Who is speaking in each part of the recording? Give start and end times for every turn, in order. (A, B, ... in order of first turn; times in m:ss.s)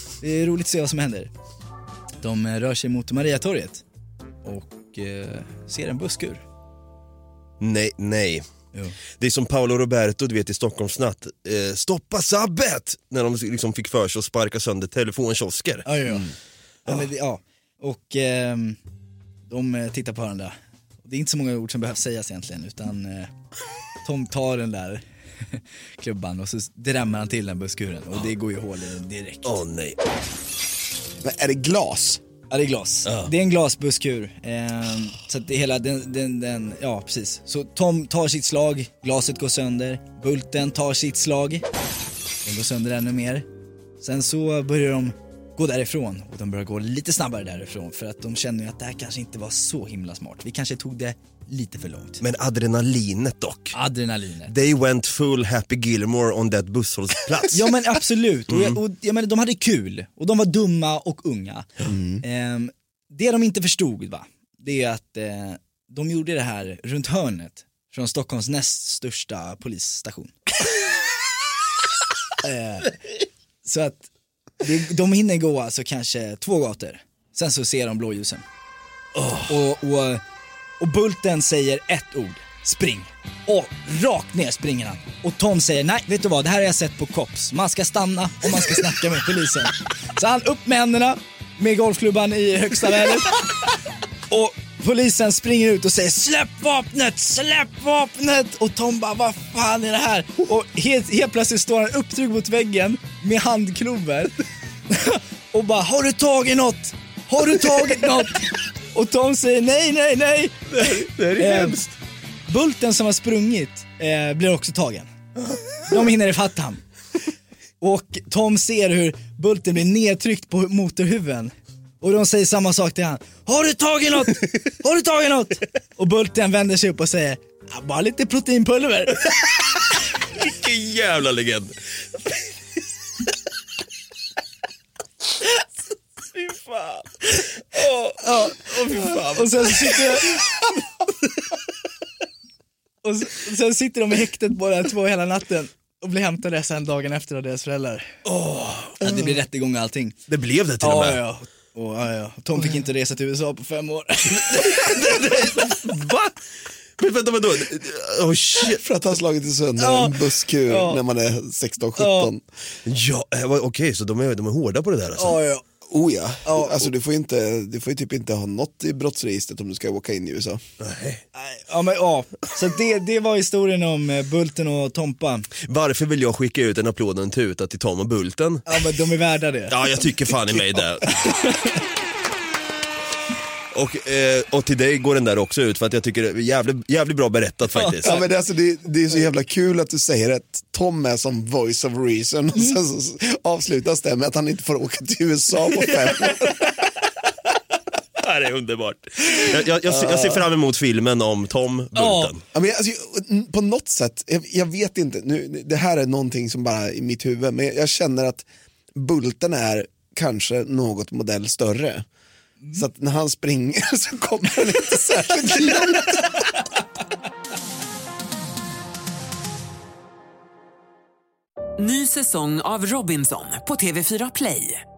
0:00.2-0:01.3 A
0:02.2-0:03.8 A
0:04.4-0:06.4 A
0:07.6-0:08.4 B
0:09.2-0:15.9 B
0:15.8-0:16.3 A
0:16.9-0:18.8 A
0:19.5-0:23.3 A
0:24.0-0:29.6 A
0:29.4-0:30.0 B
0:31.2-0:32.2 C
0:32.5-0:41.7 A
0:33.1-0:33.3 B
0:42.4-0:43.5 A
0:44.0-0:52.2 A
0:52.2-0:53.8 B
0:53.7-0:54.5 A
0:54.5-0:57.7 B
0:57.5-1:01.7 A
0:58.5-0:58.8 B
1:01.9-1:02.2 C
1:02.2-1:10.4 A
1:12.4-1:13.0 A
1:13.6-1:14.1 A
1:14.6-1:18.4 A
1:19.2-1:19.5 B
1:19.5-1:20.2 A
1:20.8-1:33.5 A
1:34.3-1:44.3 A
1:44.9-1:51.8 A
1:50.7-1:52.0 B
1:52.5-1:55.1 A
1:55.9-1:56.8 A
1:57.8-2:09.3 A
2:10.3-2:11.7 B
2:16.3-2:20.5 B
2:18.2-2:18.6 A
2:19.3-2:20.4 A
2:23.0-2:28.2 A
2:28.2-2:29.3 B
2:29.0-2:30.2 A
2:30.3-2:31.2 B
2:30.8-2:34.9 A
2:34.4-2:36.4 B
2:37.0-2:38.8 B
2:38.6-2:42.4 C
2:39.8-2:41.0 A
2:42.0-2:42.3 A
2:42.9-2:45.4 B
2:45.2-2:45.6 A
2:45.9-2:50.6 C
2:46.4-2:46.9 A
2:50.8-2:51.2 B
2:51.4-2:55.5 A
2:55.6-2:58.7 B
2:58.7-2:59.8 A
2:59.7-3:01.2 B
3:01.2-3:01.7 A
3:03.7-3:08.2 B
3:07.8-3:08.2 A
3:08.0-3:16.7 C
3:18.2-3:22.4 B
3:19.9-3:20.4 C
3:22.0-3:22.3 A
3:22.5-3:32.1 C
3:32.7-3:36.4 C
3:41.8-3:44.8 D